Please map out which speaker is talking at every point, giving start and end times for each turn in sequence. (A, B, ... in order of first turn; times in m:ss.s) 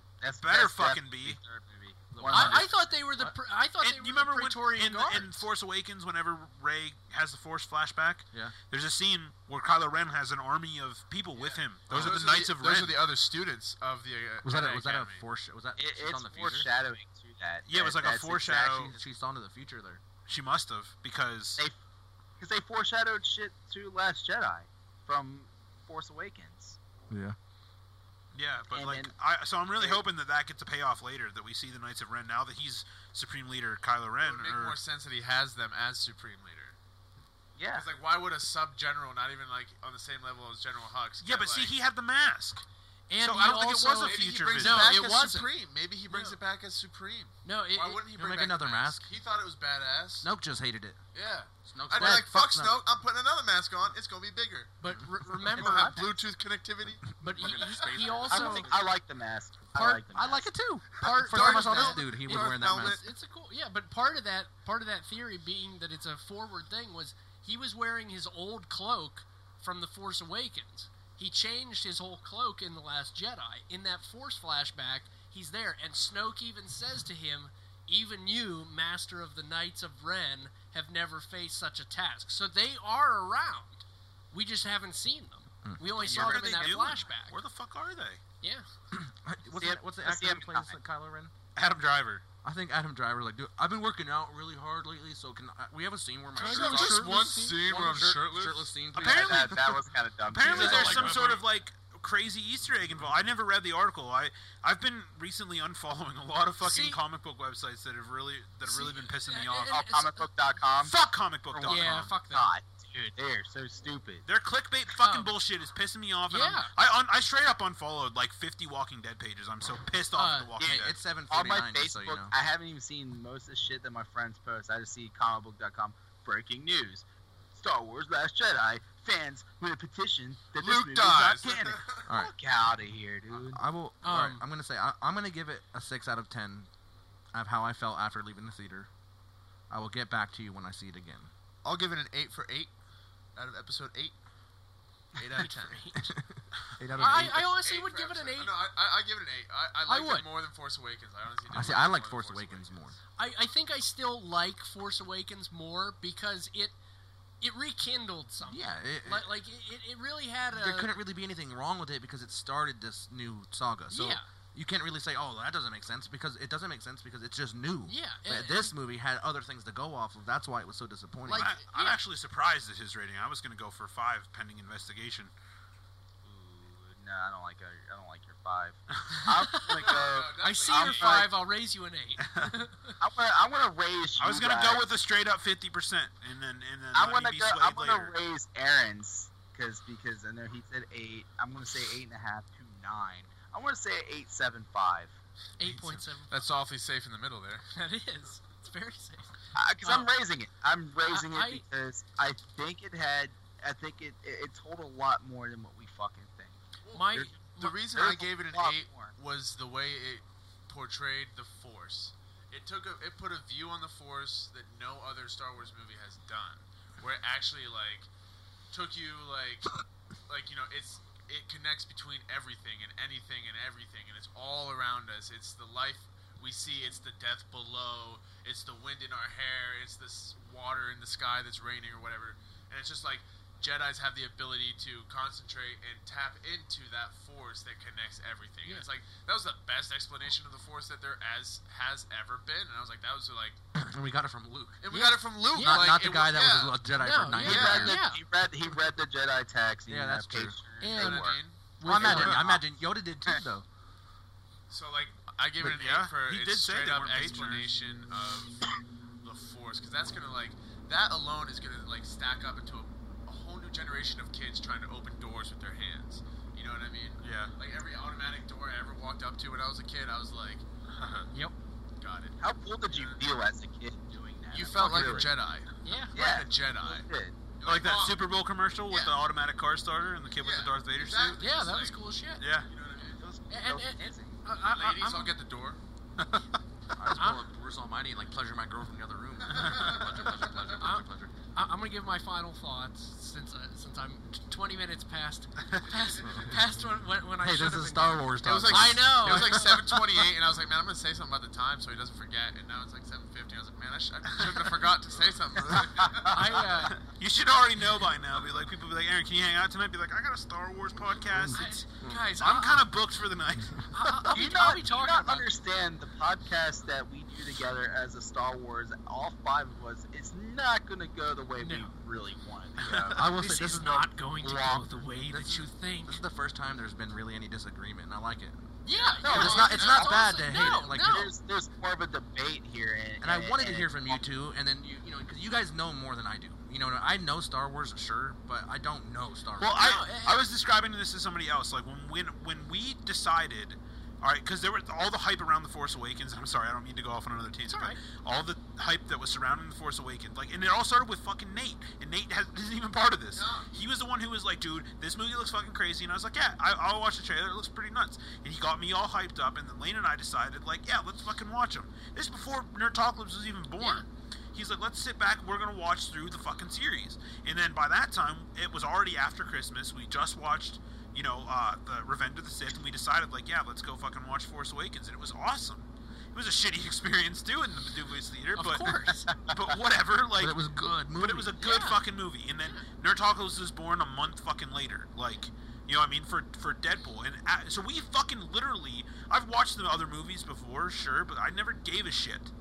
0:00.2-0:02.7 A
0:00.4-0:01.4 B
0:02.1-0:03.4 C
0:02.3-0:05.5 D
0:03.8-0:13.0 B
0:11.4-0:15.2 E
0:11.9-0:12.2 C
0:14.4-0:16.7 C
0:15.8-0:19.0 A
0:17.7-0:18.9 B
0:18.7-0:20.0 C
0:20.3-0:21.6 B
0:22.4-0:26.8 A
0:27.1-0:27.4 C
0:28.3-0:34.8 B
0:28.7-0:29.1 A
0:34.2-0:36.8 E
0:37.6-0:37.9 A
0:37.7-0:41.7 E
0:41.2-0:42.6 B
0:43.1-0:45.5 D
0:43.2-0:44.9 B
0:44.0-0:50.3 E
0:46.1-0:46.4 D
0:47.4-0:48.0 D
0:48.2-0:49.1 C
0:50.2-0:51.0 C
0:51.1-0:54.8 E
0:51.7-0:52.8 C
0:54.8-0:56.1 D
0:55.3-0:58.2 E
0:55.6-0:56.2 A
0:57.2-0:58.7 D
0:57.2-0:58.9 C
0:58.3-1:00.5 A
0:59.7-1:00.1 D
1:00.1-1:03.0 C
1:00.9-1:27.4 D
1:01.1-1:03.0 E
1:25.6-1:26.2 C
1:26.0-1:28.2 B
1:26.3-1:26.6 A
1:28.4-1:28.7 D
1:28.9-1:31.3 C
1:29.6-1:30.8 A
1:31.6-1:32.2 B
1:32.4-1:39.8 C
1:36.4-1:37.6 D
1:36.4-1:38.7 E
1:38.9-1:39.8 B
1:39.0-1:41.4 A
1:40.3-1:49.8 B
1:40.4-1:41.4 C
1:46.6-1:47.0 D
1:48.6-1:50.3 D
1:49.7-1:54.3 A
1:50.8-1:52.1 B
1:51.6-1:52.5 D
1:54.3-2:01.0 B
1:55.0-1:55.3 D
1:56.3-1:56.7 D
2:00.1-2:00.6 D
2:00.6-2:13.6 A
2:00.6-2:02.3 C
2:10.6-2:12.1 E
2:12.1-2:12.3 C
2:13.4-2:16.7 C
2:14.0-2:14.4 D
2:17.3-2:18.9 C
2:19.7-2:21.3 C
2:21.6-2:22.7 E
2:23.4-2:24.2 E
2:25.2-2:25.8 E
2:25.4-2:26.2 D
2:26.0-2:27.5 C
2:27.0-2:32.9 E
2:27.0-2:28.5 D
2:29.9-2:30.2 C
2:31.5-2:33.0 C
2:33.2-2:36.8 D
2:37.4-2:40.9 D
2:38.5-2:39.3 C
2:40.5-2:51.5 C
2:43.9-2:44.3 D
2:47.9-2:48.8 D
2:51.3-2:52.0 D
2:51.3-2:55.3 B
2:56.2-3:01.3 A
2:59.5-3:03.0 D
2:59.7-3:01.1 E
3:02.2-3:02.6 B
3:03.0-3:04.9 A
3:04.2-3:08.2 B
3:06.9-3:15.2 A
3:15.6-3:16.4 D
3:16.3-3:17.6 E
3:17.7-3:19.3 D
3:19.6-3:26.6 A
3:19.8-3:20.1 D
3:21.1-3:21.6 D
3:26.8-3:38.1 E
3:26.9-3:27.8 D
3:27.9-3:29.1 A
3:38.7-4:03.6 E
4:03.8-4:04.8 C
4:04.8-4:06.8 E
4:04.9-4:05.9 D
4:05.5-4:08.0 C
4:07.0-4:08.2 D
4:07.4-4:12.6 A
4:07.4-4:08.0 E
4:09.9-4:10.6 C
4:10.8-4:12.5 D
4:10.9-4:11.6 E
4:11.8-4:13.6 C
4:14.7-4:18.6 E
4:15.6-4:17.7 B
4:19.2-4:30.6 E
4:27.2-4:27.5 B
4:30.9-4:31.3 B
4:31.3-4:31.6 D
4:32.0-4:33.2 E
4:32.4-4:35.3 A
4:34.5-4:38.2 E
4:35.8-4:36.2 D
4:36.2-4:37.4 A
4:37.6-4:41.4 B
4:38.9-4:39.2 E
4:40.4-4:42.0 E
4:41.4-4:42.4 D
4:42.4-4:42.7 B
4:42.7-4:43.2 E
4:43.2-4:44.4 A
4:43.5-4:45.4 D
4:44.7-4:45.8 E
4:46.2-4:46.4 B
4:47.0-4:51.3 C
4:47.2-4:47.4 D
4:49.6-4:50.4 E
4:50.8-4:59.7 D
4:55.6-4:55.9 B
4:56.2-4:56.6 C
4:57.4-5:00.3 C
4:58.4-5:06.4 E
5:06.0-5:06.6 A
5:06.3-5:07.0 D
5:06.8-5:14.1 B
5:11.5-5:12.9 D
5:13.9-5:15.5 D
5:14.3-5:23.3 A
5:21.6-5:21.9 D
5:22.8-5:23.1 B
5:23.1-5:24.8 C
5:23.2-5:26.2 D
5:24.4-5:24.8 A
5:25.3-5:28.6 C
5:28.8-5:31.3 D
5:28.9-5:30.2 E
5:29.2-5:31.3 C
5:29.2-5:34.2 A
5:33.2-5:40.0 C
5:39.6-6:20.6 B
5:39.8-5:40.5 D
5:47.7-5:48.0 D
5:53.3-5:53.9 E
6:03.8-6:04.0 D
6:18.6-6:19.3 D
6:20.4-6:21.6 C
6:21.2-6:32.5 B
6:21.6-6:22.0 D